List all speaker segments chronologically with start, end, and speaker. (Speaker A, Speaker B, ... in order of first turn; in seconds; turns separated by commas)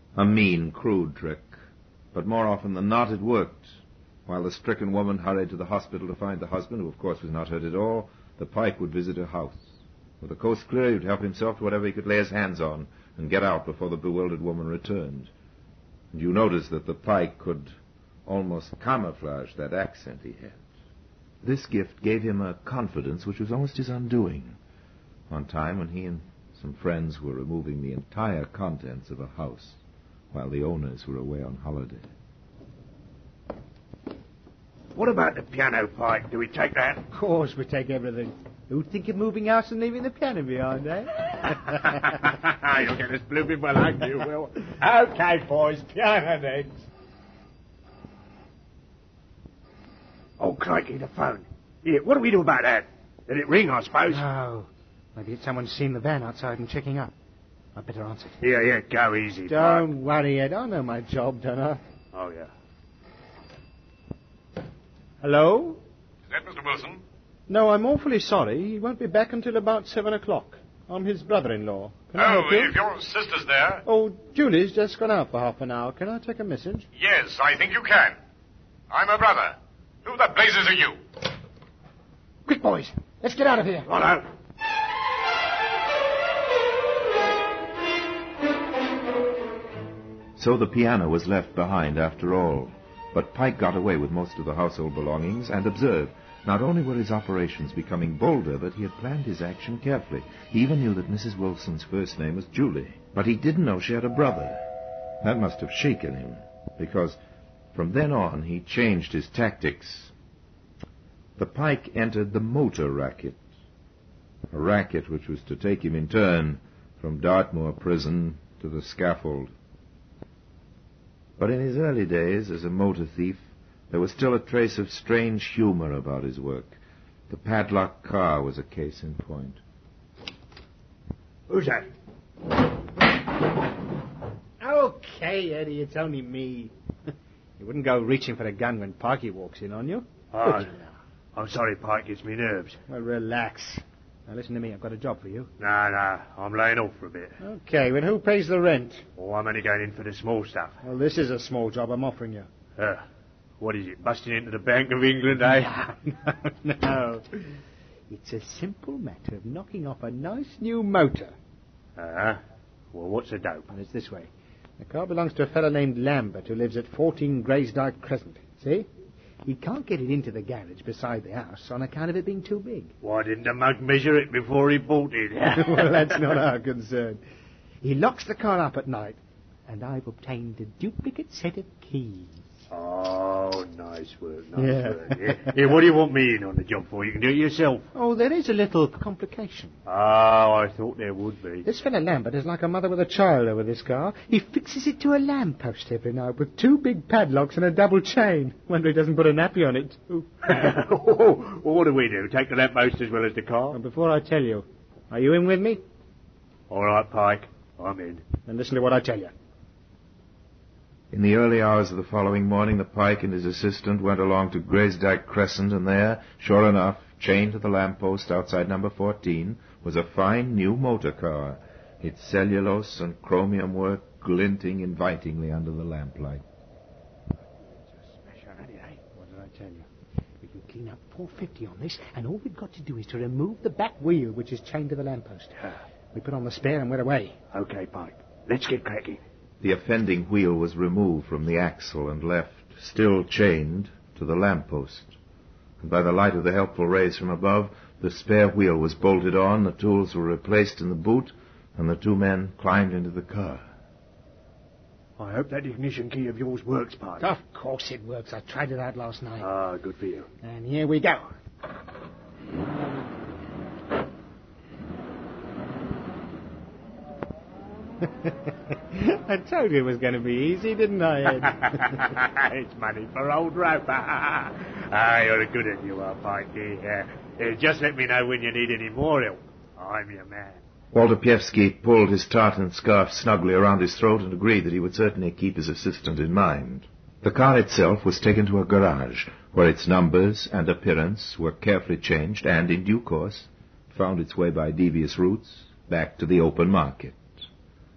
Speaker A: 0.2-1.6, Speaker A: 2.1-3.8, Speaker A: 4.3-15.3, Speaker A: 16.1-20.6, Speaker A: 21.4-24.6, Speaker A: 25.3-29.8, Speaker A: 30.3-32.1, Speaker B: 34.9-37.0, Speaker C: 37.1-41.9, Speaker B: 41.9-46.9, Speaker B: 50.4-54.3, Speaker C: 54.1-57.1, Speaker C: 57.8-58.4, Speaker B: 58.4-59.9, Speaker C: 59.5-61.8, Speaker B: 62.1-62.5, Speaker C: 65.2-65.8, Speaker D: 66.3-67.0, Speaker C: 67.5-72.8, Speaker D: 72.2-73.9, Speaker C: 73.9-76.9, Speaker D: 77.0-78.2, Speaker D: 78.9-81.0, Speaker C: 82.5-83.9, Speaker B: 83.9-84.3, Speaker A: 90.4-107.2, Speaker A: 107.7-110.1, Speaker A: 111.4-113.4, Speaker A: 114.5-119.5, Speaker A: 121.4-126.8, Speaker A: 127.3-129.6, Speaker B: 131.5-131.9, Speaker C: 134.6-136.7, Speaker C: 137.6-140.7, Speaker B: 140.3-140.7, Speaker B: 141.3-142.8, Speaker C: 142.9-145.5, Speaker B: 145.6-147.4, Speaker C: 147.4-149.1, Speaker B: 149.2-150.8, Speaker C: 150.8-152.5, Speaker B: 152.8-153.0, Speaker B: 153.6-155.8, Speaker C: 155.6-157.2, Speaker C: 158.1-161.3, Speaker B: 162.0-162.4, Speaker B: 162.9-163.7, Speaker C: 163.7-168.9, Speaker C: 169.4-172.9, Speaker B: 173.0-176.3, Speaker C: 175.6-177.2, Speaker C: 177.8-182.4, Speaker B: 182.7-187.9, Speaker C: 184.6-185.5, Speaker C: 187.9-189.8, Speaker B: 189.9-191.7, Speaker C: 191.6-200.6, Speaker B: 200.5-203.8, Speaker C: 203.7-205.8, Speaker B: 206.7-208.2, Speaker C: 208.5-209.3, Speaker A: 211.1-226.4, Speaker B: 228.0-229.0, Speaker C: 229.1-229.9, Speaker C: 230.4-237.4, Speaker B: 237.5-239.2, Speaker A: 239.6-245.1, Speaker A: 245.8-253.7, Speaker B: 255.2-257.3, Speaker C: 257.2-259.5, Speaker B: 259.4-260.3, Speaker C: 260.4-261.3, Speaker C: 268.9-272.0, Speaker B: 271.5-280.6, Speaker A: 280.9-297.3